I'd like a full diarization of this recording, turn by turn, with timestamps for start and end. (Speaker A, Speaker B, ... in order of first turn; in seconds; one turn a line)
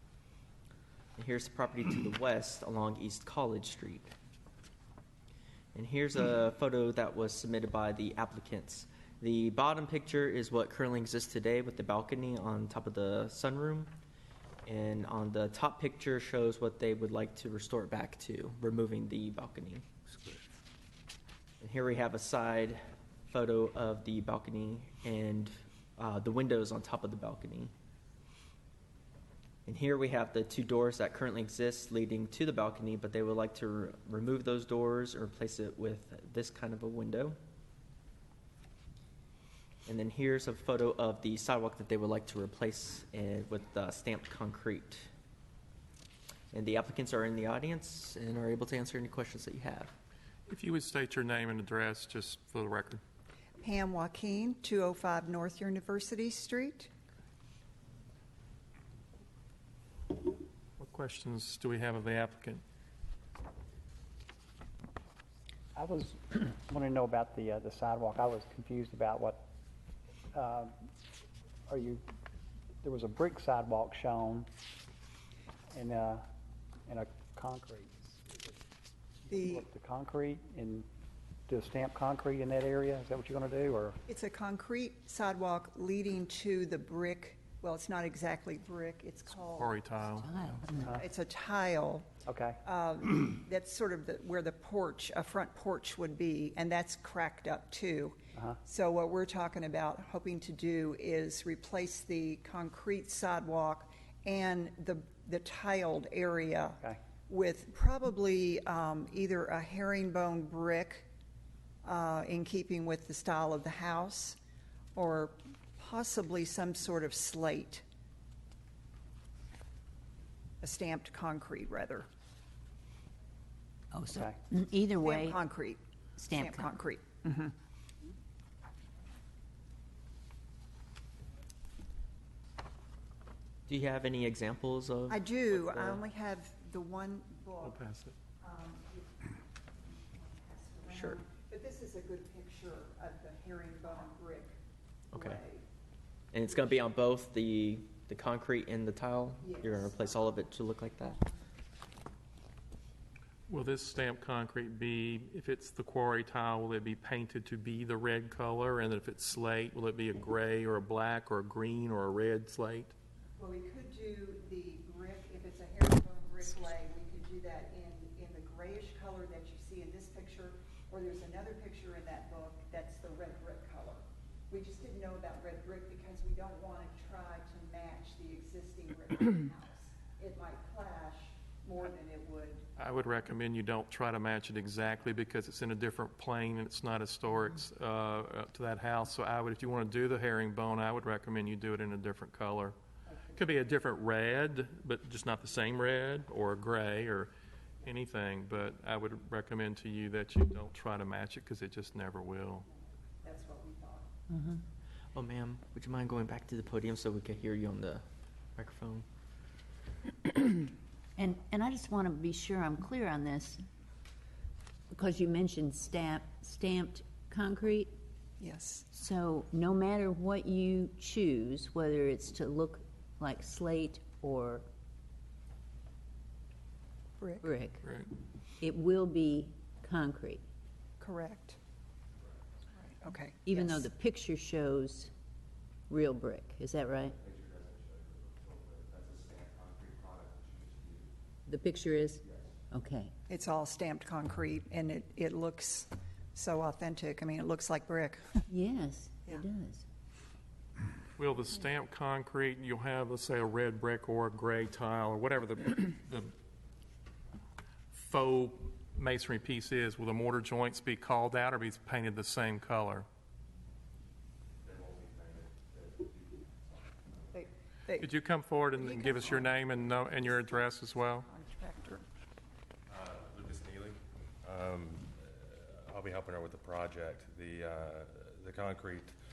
Speaker A: 1.2-4.1
Speaker A: 5.7-13.9
Speaker A: 14.7-19.9
Speaker A: 21.6-27.7
Speaker A: 29.7-37.4
Speaker A: 39.9-45.1
Speaker A: 46.5-50.0
Speaker B: 50.5-53.0
Speaker C: 53.6-56.9
Speaker B: 60.8-62.6
Speaker D: 65.8-69.5
Speaker D: 70.3-70.8
Speaker D: 71.7-72.0
Speaker D: 72.8-74.5
Speaker D: 75.7-76.3
Speaker D: 76.9-78.6
Speaker D: 79.3-80.9
Speaker C: 79.3-79.7
Speaker D: 81.5-84.0
Speaker C: 84.1-90.0
Speaker B: 89.6-90.3
Speaker E: 90.2-91.0
Speaker C: 90.8-92.1
Speaker D: 92.2-92.6
Speaker C: 92.6-111.1
Speaker C: 111.8-114.4
Speaker C: 115.0-117.8
Speaker C: 120.6-122.1
Speaker E: 123.9-125.5
Speaker C: 125.0-127.5
Speaker E: 126.2-126.8
Speaker A: 133.7-136.0
Speaker C: 135.1-137.8
Speaker B: 137.6-138.1
Speaker C: 138.4-144.6
Speaker A: 140.9-141.2
Speaker A: 145.1-145.4
Speaker C: 145.1-145.6
Speaker A: 146.3-151.2
Speaker C: 149.4-150.4
Speaker B: 153.5-162.9
Speaker C: 163.4-182.7
Speaker B: 182.8-192.8
Speaker C: 193.1-193.4
Speaker B: 193.3-197.3
Speaker B: 197.8-202.7
Speaker C: 203.2-204.1
Speaker E: 204.3-204.6
Speaker A: 205.1-208.1
Speaker A: 208.6-209.1
Speaker E: 211.2-213.6
Speaker E: 214.9-217.9
Speaker C: 218.4-218.9
Speaker E: 218.9-224.7
Speaker C: 227.2-227.5
Speaker E: 227.4-227.8
Speaker B: 227.8-228.1
Speaker E: 228.6-230.4
Speaker C: 231.0-231.6
Speaker C: 232.7-233.9
Speaker E: 233.5-235.1
Speaker E: 235.9-237.2
Speaker F: 237.2-241.1
Speaker E: 241.5-243.1
Speaker F: 242.2-242.5
Speaker C: 243.3-248.4
Speaker E: 248.5-249.8
Speaker B: 251.2-256.3
Speaker B: 257.9-263.1
Speaker F: 264.6-267.4
Speaker C: 267.3-268.1
Speaker B: 268.0-271.3
Speaker C: 268.8-269.5
Speaker C: 270.2-272.0
Speaker F: 272.9-279.1